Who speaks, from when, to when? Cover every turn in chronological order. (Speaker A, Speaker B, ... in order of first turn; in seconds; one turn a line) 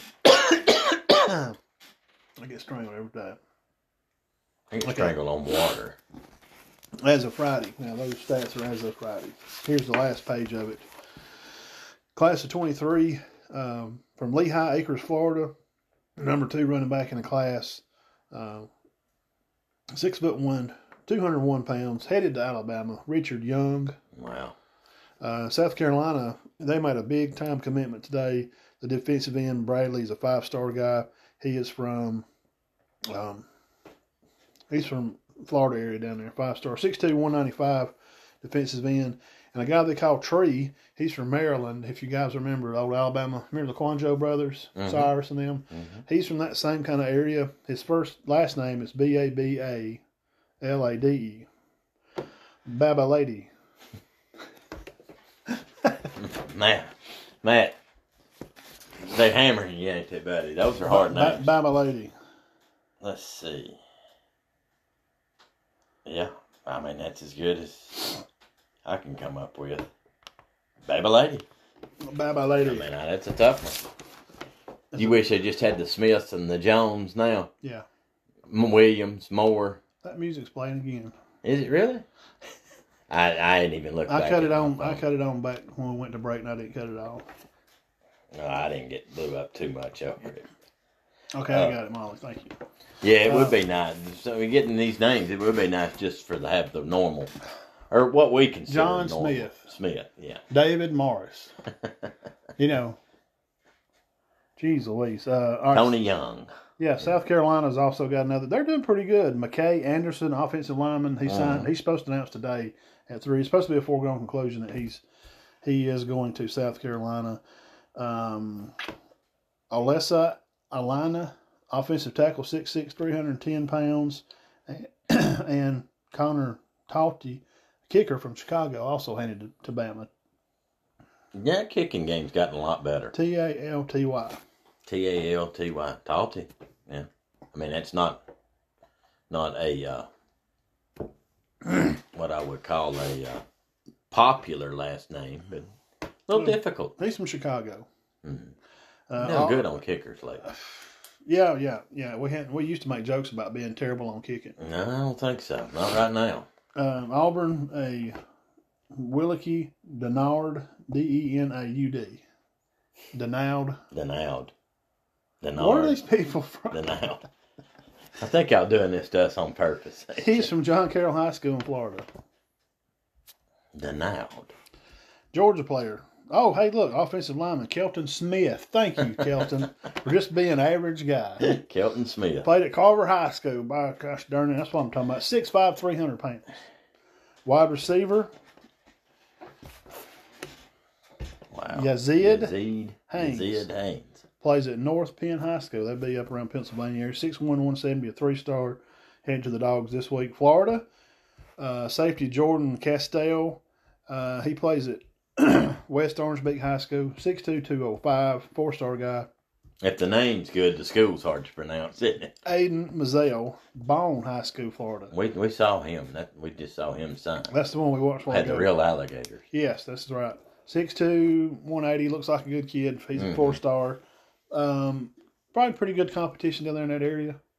Speaker A: 0.2-1.6
Speaker A: 2.4-3.4
Speaker B: 4.7-6.0
Speaker A: 4.8-5.2
Speaker A: 7.0-10.9
Speaker A: 12.2-15.5
Speaker A: 16.2-18.7
Speaker A: 19.9-24.0
Speaker B: 24.2-24.6
Speaker A: 25.2-32.3
Speaker A: 33.1-33.5
Speaker A: 34.7-50.0
Speaker B: 44.8-45.1
Speaker B: 45.7-46.0
Speaker A: 50.6-51.5
Speaker A: 52.7-53.5
Speaker B: 56.2-56.9
Speaker B: 57.4-57.8
Speaker B: 59.0-61.5
Speaker A: 60.9-62.1
Speaker B: 63.0-63.8
Speaker B: 66.0-68.2
Speaker B: 68.8-69.9
Speaker B: 70.9-71.5
Speaker A: 72.0-72.9
Speaker B: 72.6-73.9
Speaker A: 74.9-75.2
Speaker B: 75.0-77.5
Speaker A: 77.6-77.9
Speaker B: 78.5-79.8
Speaker A: 80.0-81.1
Speaker B: 81.4-82.0
Speaker B: 83.1-85.0
Speaker A: 84.1-87.3
Speaker B: 88.3-90.5
Speaker A: 91.3-92.6
Speaker B: 91.5-91.8
Speaker B: 93.0-97.3
Speaker A: 93.2-93.6
Speaker B: 97.9-100.5
Speaker A: 98.7-99.7
Speaker A: 100.5-101.5
Speaker B: 101.8-102.1
Speaker A: 102.6-103.0
Speaker A: 104.6-106.0
Speaker B: 105.7-106.5
Speaker A: 106.8-115.0
Speaker B: 111.3-111.7
Speaker A: 115.6-117.4
Speaker A: 118.0-118.9
Speaker A: 119.7-130.1
Speaker B: 131.3-133.1
Speaker A: 133.1-134.4
Speaker B: 134.9-138.2
Speaker B: 139.3-140.1
Speaker B: 141.9-143.4
Speaker B: 144.1-145.7
Speaker B: 146.3-146.9
Speaker A: 146.3-147.9
Speaker B: 148.2-148.6
Speaker A: 149.1-149.7
Speaker B: 149.2-150.4
Speaker A: 150.4-154.6
Speaker B: 154.6-156.5
Speaker A: 156.8-158.2
Speaker A: 158.9-162.2
Speaker A: 163.1-163.8
Speaker B: 163.9-164.5
Speaker B: 165.4-166.0
Speaker A: 165.6-166.8
Speaker B: 166.7-167.2
Speaker B: 168.2-170.5
Speaker A: 170.2-172.1
Speaker B: 173.8-174.5
Speaker A: 175.3-181.5
Speaker B: 181.4-182.5
Speaker A: 182.4-186.5
Speaker A: 187.4-188.3
Speaker B: 191.5-194.2
Speaker A: 191.7-192.6
Speaker A: 193.1-193.7
Speaker A: 194.4-200.9
Speaker A: 201.6-209.3
Speaker B: 209.8-212.3
Speaker A: 212.4-215.1
Speaker B: 215.1-217.5
Speaker A: 217.5-218.7
Speaker B: 218.3-219.4
Speaker A: 219.5-227.4
Speaker B: 223.2-223.5